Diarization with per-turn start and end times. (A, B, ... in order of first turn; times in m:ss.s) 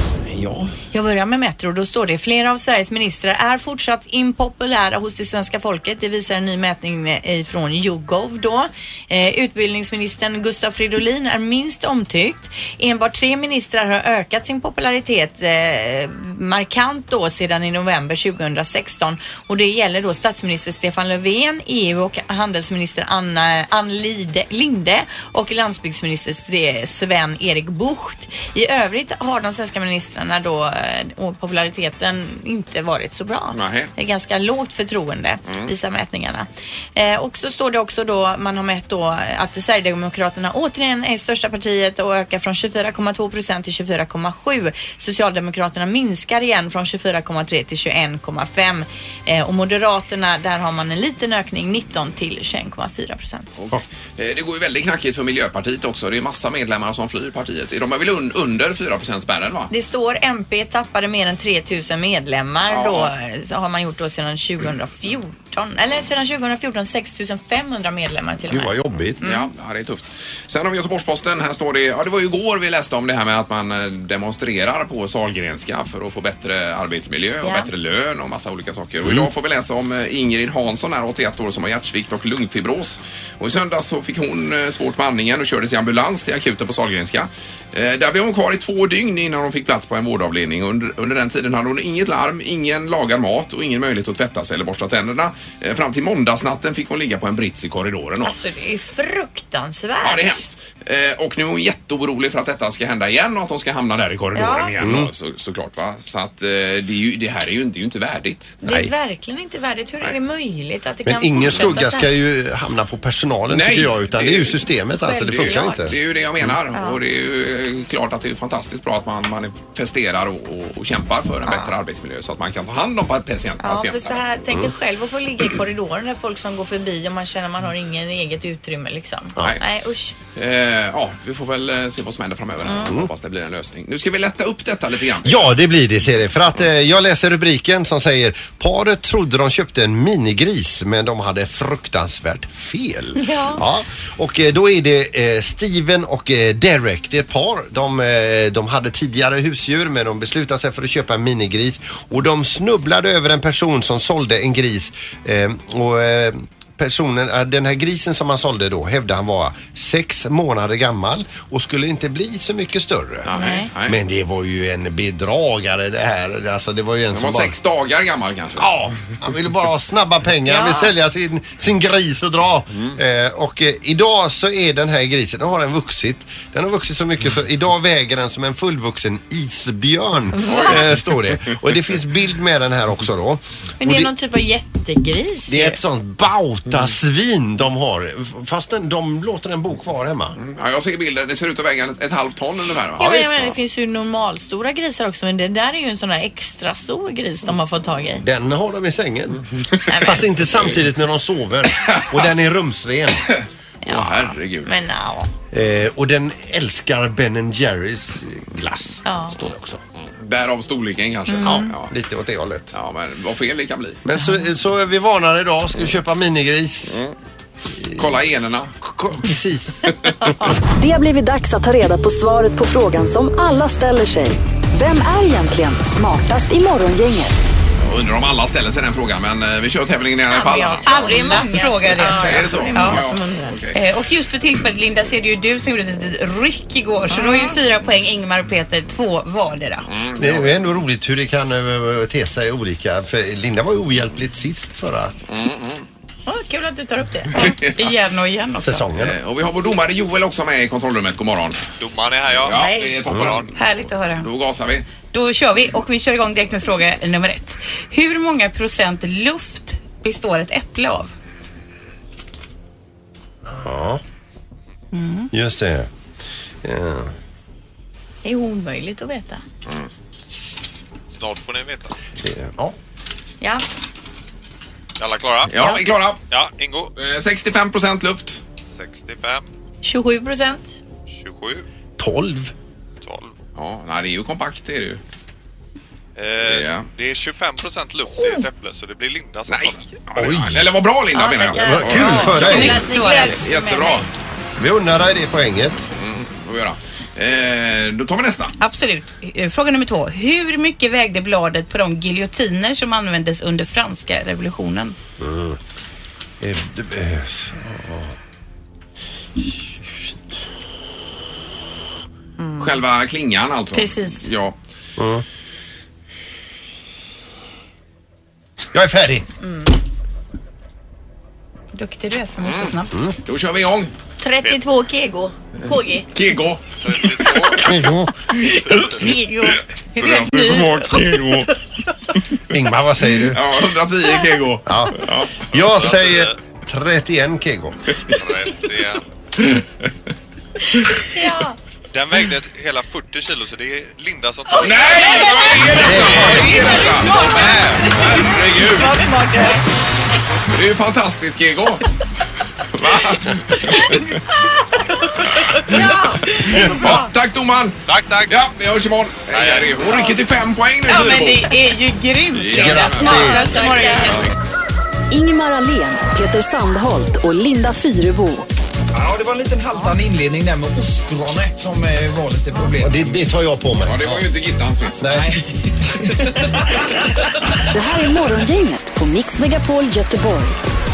0:00.3-0:00.7 A
0:00.9-0:53.5 B
0:33.5-0:33.9 A
0:53.6-0:59.7 A
0:59.7-1:09.5 B
1:02.7-1:03.1 A
1:08.5-1:09.2 C
1:09.2-1:38.4 A
1:17.4-1:17.7 B
1:19.0-1:19.3 C
1:38.2-1:40.4 B
1:40.0-1:48.6 A
1:44.4-1:44.7 B
1:44.8-1:45.1 C
1:48.6-1:52.1 B
1:48.6-1:48.9 C
1:51.1-1:56.0 C
1:53.5-1:54.6 A
1:55.0-1:55.9 B
1:55.2-2:04.2 A
2:03.6-2:10.2 B
2:10.4-2:15.5 A
2:12.6-2:12.9 B
2:15.2-2:47.5 C
2:23.2-2:23.6 B
2:43.3-2:44.0 A
2:43.3-2:43.7 B
2:47.1-2:49.0 A
2:48.6-3:04.1 C
2:50.5-2:50.9 B
3:00.4-3:00.8 B
3:00.5-3:00.9 A
3:03.8-3:05.8 B
3:05.5-3:10.4 C
3:10.4-3:13.5 A
3:13.0-3:18.2 B
3:18.2-3:23.3 C
3:19.9-3:20.2 B
3:21.9-3:22.2 A
3:23.3-3:24.7 A
3:23.8-3:25.3 B
3:25.5-3:29.8 C
3:29.0-3:29.4 B
3:30.0-3:31.9 A
3:31.3-3:31.7 B
3:31.4-3:32.7 C
3:32.7-3:34.0 A
3:34.0-3:37.0 C
3:37.8-3:38.1 C
3:38.0-3:38.8 A
3:38.8-3:40.1 C
3:40.7-3:47.5 D
3:47.8-3:51.4 A
3:50.3-3:53.6 B
3:50.8-3:53.0 E
3:52.0-3:53.8 A
3:53.7-3:59.8 E
3:57.1-3:57.6 B
3:59.9-4:00.6 A
4:00.2-4:05.1 C
4:05.3-4:05.8 A
4:06.3-4:07.7 B
4:07.4-4:07.9 A
4:07.8-4:08.7 E
4:08.6-4:09.2 C
4:09.0-4:11.6 A
4:11.8-4:13.5 F
4:12.4-4:14.9 A
4:13.1-4:13.4 C
4:13.6-4:14.3 E
4:15.1-4:21.1 E
4:23.4-4:24.0 C
4:24.9-4:25.3 E
4:25.3-4:25.9 C
4:26.6-4:27.1 C
4:28.2-4:29.4 B
4:31.1-4:31.9 F
4:32.2-4:32.8 C
4:35.0-4:36.9 F
4:35.5-4:36.2 A
4:37.0-4:38.4 A
4:38.7-4:39.5 F
4:39.8-4:40.8 B
4:41.1-4:41.6 F
4:42.0-4:42.5 C
4:43.0-4:43.4 F
4:43.6-4:45.0 A
4:46.2-4:50.0 F
4:46.4-4:46.9 A
4:49.5-4:54.1 A
4:50.2-4:50.7 C
4:51.1-4:54.0 B
4:51.5-4:52.9 C
4:52.0-4:53.5 E
4:54.6-4:55.8 C
4:56.0-4:58.6 A
4:58.6-5:04.9 E
5:05.2-5:05.6 C
5:06.4-5:08.2 C
5:09.4-5:10.2 C
5:12.6-5:14.6 A
5:13.8-5:14.3 E
5:15.0-5:15.2 C
5:18.7-5:19.3 C
5:21.8-5:22.9 E
5:22.4-5:23.9 A
5:24.2-5:26.1 B
5:26.1-5:27.8 A
5:26.8-5:27.8 F
5:27.6-5:28.1 C
5:28.5-5:30.6 B
5:29.5-5:31.5 A
5:32.5-5:33.4 C
5:33.3-5:35.5 A
5:34.7-5:38.0 C
5:35.5-5:36.4 F
5:38.1-5:39.0 F
5:39.4-5:39.6 A
5:41.1-5:41.5 B
5:41.9-5:48.0 F
5:44.6-5:49.0 A
5:44.8-5:45.5 B
5:45.6-5:46.5 C
5:49.0-5:49.5 E
5:50.5-5:51.9 A
5:52.6-5:54.2 A
5:55.7-6:01.6 A
5:57.9-5:58.4 F
5:59.3-6:00.1 F
6:00.9-6:04.3 E
6:02.3-6:03.3 A
6:02.5-6:03.6 C
6:02.5-6:04.3 B
6:05.1-6:08.5 D
6:09.0-6:13.2 G
6:12.8-6:14.2 C
6:13.8-6:15.0 A
6:15.0-6:15.3 C
6:15.1-6:15.4 G
6:17.7-6:20.6 D